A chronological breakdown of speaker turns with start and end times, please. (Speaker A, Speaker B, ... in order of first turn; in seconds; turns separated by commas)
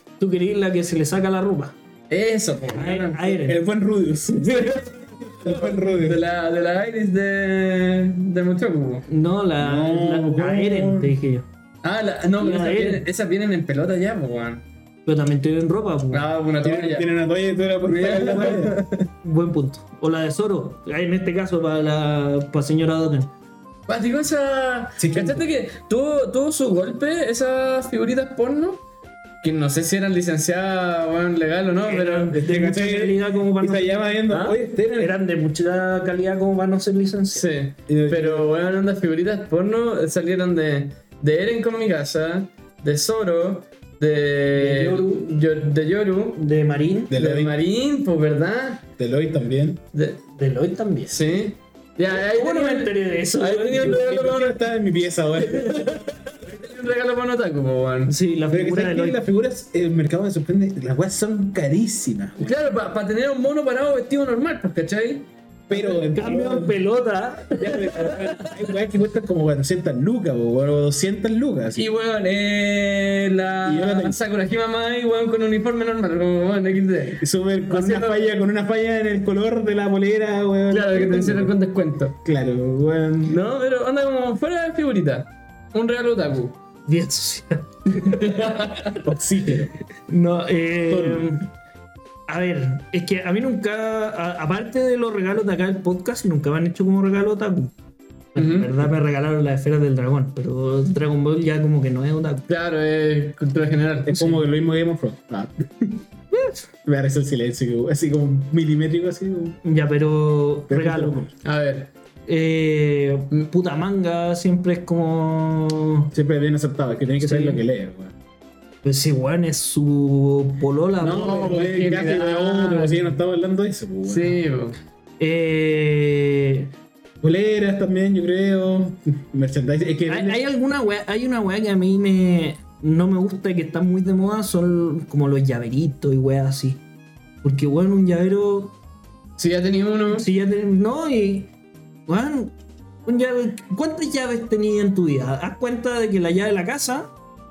Speaker A: 0.2-1.8, Speaker B: 2.1-3.3, Speaker A: 2.7-3.6, Speaker C: 3.3-6.2, Speaker B: 4.3-9.1, Speaker A: 9.1-11.4, Speaker C: 9.6-11.1, Speaker B: 11.8-14.6, Speaker A: 12.4-13.0, Speaker A: 15.1-16.3, Speaker B: 16.1-17.1, Speaker C: 16.6-18.9, Speaker B: 17.9-18.9, Speaker A: 19.2-23.3, Speaker B: 23.9-28.8, Speaker C: 25.0-25.4, Speaker B: 29.4-32.4, Speaker A: 31.8-34.2, Speaker C: 32.3-35.1, Speaker B: 34.3-34.6, Speaker A: 34.9-37.5, Speaker B: 37.3-46.4, Speaker C: 37.9-38.5, Speaker A: 44.5-45.3, Speaker A: 46.4-47.1, Speaker C: 47.1-47.5, Speaker B: 47.1-48.8, Speaker C: 49.0-49.8, Speaker B: 49.9-50.2, Speaker A: 50.4-51.3, Speaker B: 51.1-54.6, Speaker A: 52.1-54.0, Speaker C: 53.8-56.0, Speaker B: 55.4-58.1, Speaker A: 58.1-59.2, Speaker C: 58.5-62.6, Speaker B: 62.4-65.3, Speaker C: 65.7-66.7, Speaker A: 65.7-68.3, Speaker C: 67.5-71.8, Speaker B: 71.7-78.3, Speaker C: 73.6-74.2, Speaker C: 77.2-81.5, Speaker B: 80.7-82.1, Speaker C: 82.2-83.4, Speaker B: 83.3-86.5, Speaker A: 86.9-88.5, Speaker B: 88.0-89.0, Speaker C: 89.0-89.7, Speaker A: 90.1-91.5, Speaker C: 90.9-91.3, Speaker A: 92.3-97.7, Speaker A: 98.3-102.5, Speaker B: 98.3-98.8, Speaker B: 102.5-104.4, Speaker C: 104.0-106.0, Speaker A: 106.3-106.6, Speaker C: 106.8-109.6, Speaker A: 109.6-111.3, Speaker C: 110.7-111.2, Speaker B: 111.4-111.9, Speaker A: 112.3-116.1, Speaker C: 116.1-118.1, Speaker A: 117.2-117.6, Speaker A: 118.8-121.6, Speaker C: 121.0-124.4, Speaker B: 121.0-123.1, Speaker B: 124.0-124.8, Speaker A: 125.2-126.7, Speaker C: 127.2-130.4, Speaker A: 130.1-136.8, Speaker A: 137.4-138.7, Speaker B: 139.4-140.3, Speaker A: 140.1-141.5, Speaker A: 142.1-142.5, Speaker A: 143.1-147.1